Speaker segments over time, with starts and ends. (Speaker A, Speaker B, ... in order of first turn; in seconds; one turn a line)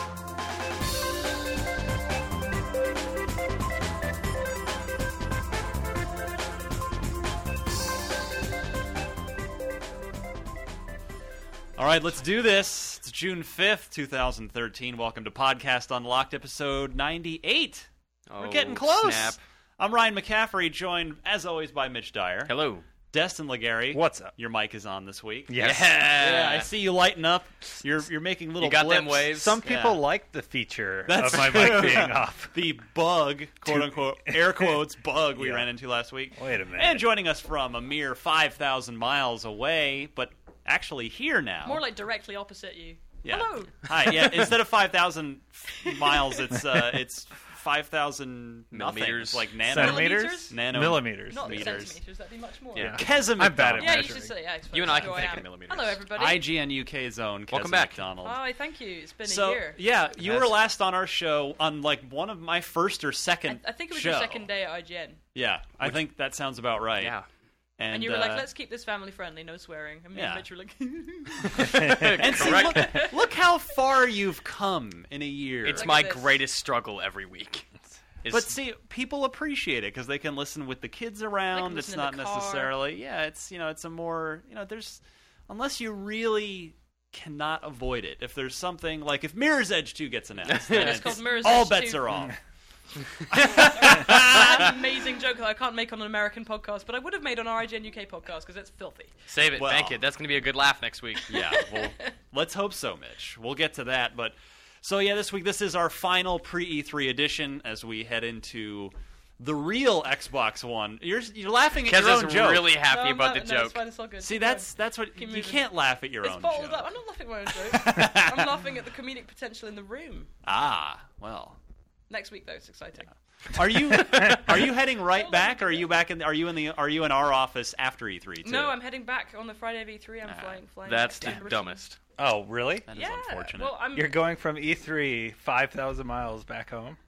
Speaker A: 11.8-22.5
Speaker B: 18.3-19.4
Speaker B: 22.4-22.9
Speaker A: 23.1-30.0
Speaker C: 23.9-24.3
Speaker C: 25.5-26.2
Speaker B: 25.6-26.7
Speaker B: 28.6-29.6
Speaker C: 29.3-32.5
Speaker A: 31.1-41.8
Speaker C: 33.7-34.6
Speaker C: 35.4-35.6
Speaker C: 36.3-37.0
Speaker D: 41.6-43.8
Speaker A: 43.2-52.0
Speaker D: 45.8-46.5
Speaker B: 48.7-49.5
Speaker C: 49.6-51.9
Speaker D: 49.7-50.6
Speaker D: 51.3-53.0
Speaker B: 52.7-53.1
Speaker C: 52.8-54.3
Speaker A: 52.8-54.1
Speaker D: 53.8-56.5
Speaker B: 54.7-56.0
Speaker A: 56.1-58.4
Speaker B: 57.5-58.0
Speaker D: 58.2-59.8
Speaker A: 59.2-64.5
Speaker D: 63.5-65.2
Speaker A: 65.3-67.1
Speaker B: 67.0-67.2
Speaker A: 67.8-68.5
Speaker D: 67.9-73.2
Speaker A: 70.1-70.5
Speaker B: 71.5-73.1
Speaker A: 71.5-76.0
Speaker B: 75.6-77.7
Speaker D: 75.7-76.4
Speaker B: 78.2-78.5
Speaker A: 78.3-92.3
Speaker D: 81.5-82.7
Speaker B: 90.5-91.2
Speaker D: 90.7-92.1
Speaker A: 93.3-94.7
Speaker D: 93.4-99.1
Speaker B: 99.3-101.3
Speaker A: 99.5-100.0
Speaker D: 101.3-102.1
Speaker A: 101.3-112.8
Speaker B: 111.8-113.8
Speaker D: 112.8-120.3
Speaker A: 114.2-116.9
Speaker A: 117.7-118.5
Speaker A: 120.4-121.6
Speaker D: 122.1-123.1
Speaker A: 123.5-128.8
Speaker D: 125.1-126.0
Speaker D: 128.4-131.8
Speaker A: 130.2-130.6
Speaker B: 130.8-132.0
Speaker C: 132.2-132.9
Speaker A: 132.9-133.8
Speaker D: 132.9-134.2
Speaker C: 133.9-137.0